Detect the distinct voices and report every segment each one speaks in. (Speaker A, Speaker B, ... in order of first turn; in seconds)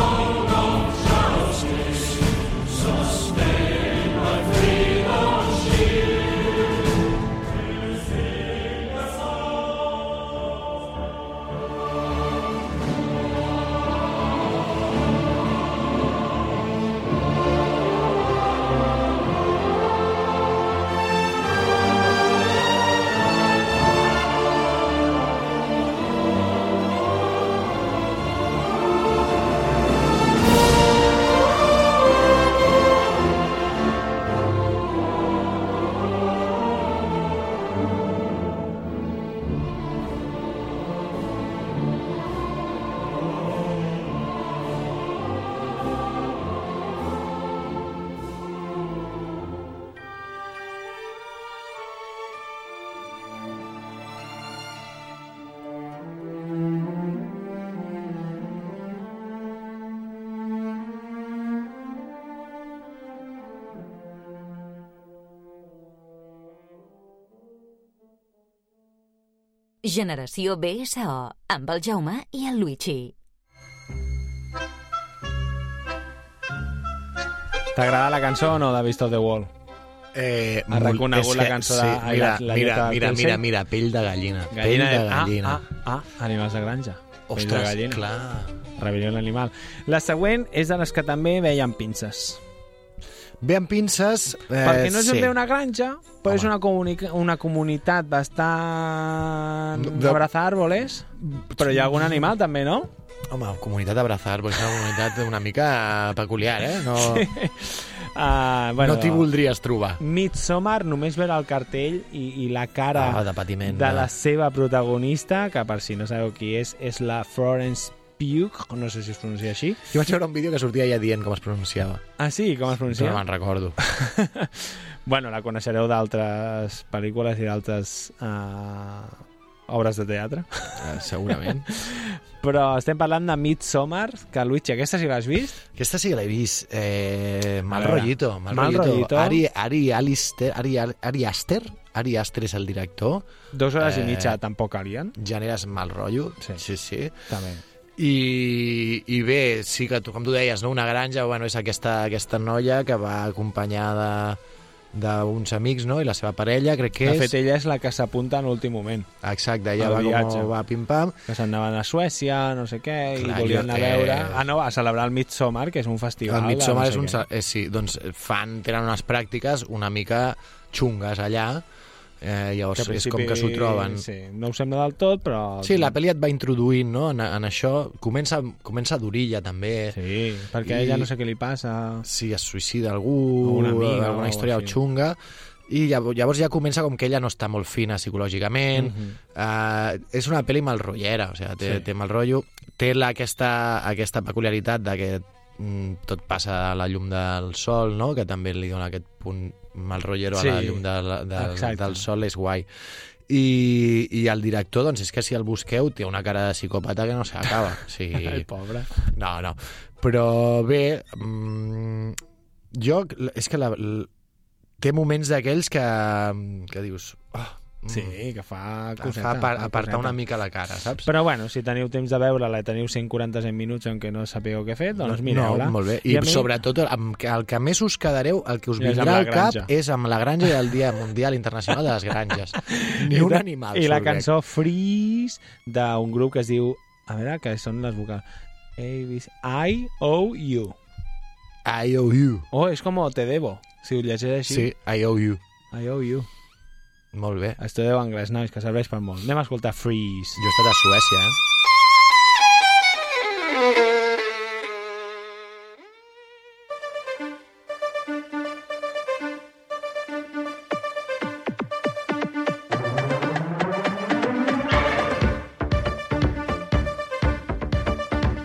Speaker A: 69.8-73.1
Speaker B: 77.8-79.5, 80.7-83.4, 84.5-88.0, 88.8-92.4, 94.6-102.9, 106.9-109.3, 110.0-119.8, 122.2-123.2, 123.8-130.8, 131.3-135.6, 137.7-139.4, 143.5-145.1, 147.3-147.6, 157.0-159.1, 159.8-160.5, 161.3-167.2, 172.8-176.0, 179.9-182.1, 183.4-184.8, 188.8-189.2, 200.3-200.8, 201.4-202.0, 208.2-209.1, 217.9-220.2, 221.1-226.5, 228.8-229.7, 232.7-238.2, 238.8-240.8, 242.5-244.7, 245.7-246.3, 247.6-250.4
Speaker C: 80.1-85.6, 87.3-88.6, 93.4-95.4, 96.2-96.5, 99.8-100.2, 101.2-102.0, 103.3-107.3, 108.8-110.0, 112.9-114.1, 119.9-122.0, 122.9-123.8, 130.8-131.7, 135.8-143.3, 143.8-144.4, 145.2-147.2, 148.0-154.4, 154.9-157.3, 159.2-161.2, 163.2-164.5, 166.3-171.6, 172.2-174.1, 175.6-180.0, 180.6-181.1, 182.1-202.7, 203.3-208.5, 209.0-212.2, 212.7-214.1, 214.8-218.2, 219.0-221.1, 225.0-234.3, 241.7-242.5, 244.5-245.4, 247.1-247.6, 250.4-251.4